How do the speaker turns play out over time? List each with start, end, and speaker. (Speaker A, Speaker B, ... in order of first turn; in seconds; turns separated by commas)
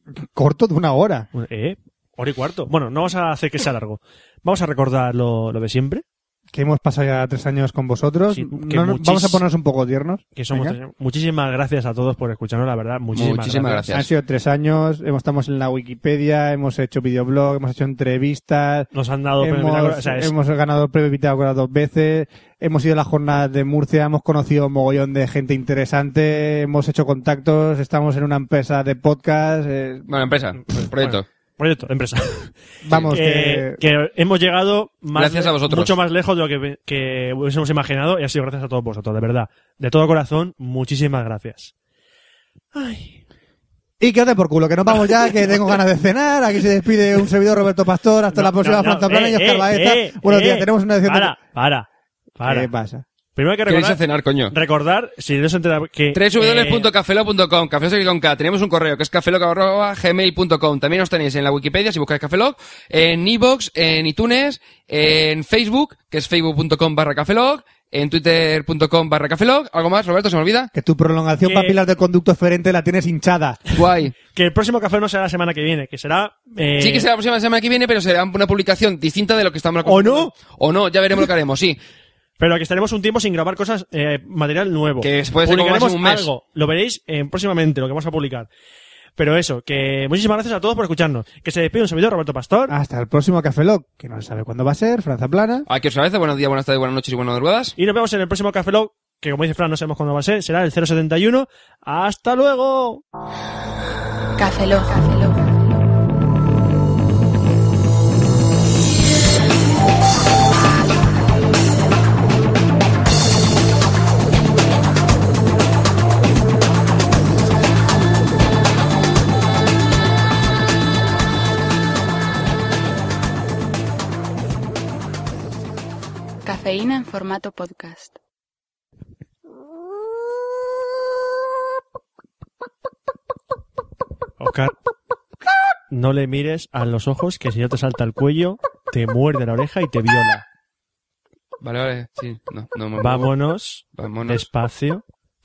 Speaker A: 0.2-1.3, Speaker B: 1.3-6.0, Speaker A: 6.5-10.8, Speaker B: 8.3-9.4, Speaker B: 10.3-13.8, Speaker C: 13.1-14.1, Speaker A: 13.9-30.1, Speaker B: 18.9-20.3, Speaker C: 30.1-31.2, Speaker B: 30.8-32.5, Speaker A: 32.8-33.8, Speaker B: 33.1-41.7, Speaker C: 35.1-36.0, Speaker B: 42.7-43.2, Speaker A: 44.0-51.4, Speaker B: 45.0-45.7, Speaker B: 48.3-52.7, Speaker A: 52.5-53.0, Speaker B: 53.3-56.9, Speaker C: 53.7-54.5, Speaker C: 56.1-70.7, Speaker A: 70.7-73.6, Speaker B: 71.4-71.8, Speaker C: 73.7-74.1, Speaker B: 74.3-77.1, Speaker C: 76.8-81.8, Speaker B: 79.8-80.3, Speaker B: 82.4-88.5, Speaker C: 85.0-86.3, Speaker B: 89.2-92.7, Speaker A: 92.7-95.7, Speaker C: 95.7-97.7, Speaker B: 97.8-103.0, Speaker D: 104.4-105.7, Speaker D: 126.4-128.1, Speaker B: 134.4-134.7, Speaker B: 135.9-140.4, Speaker C: 141.6-144.4, Speaker B: 142.9-145.0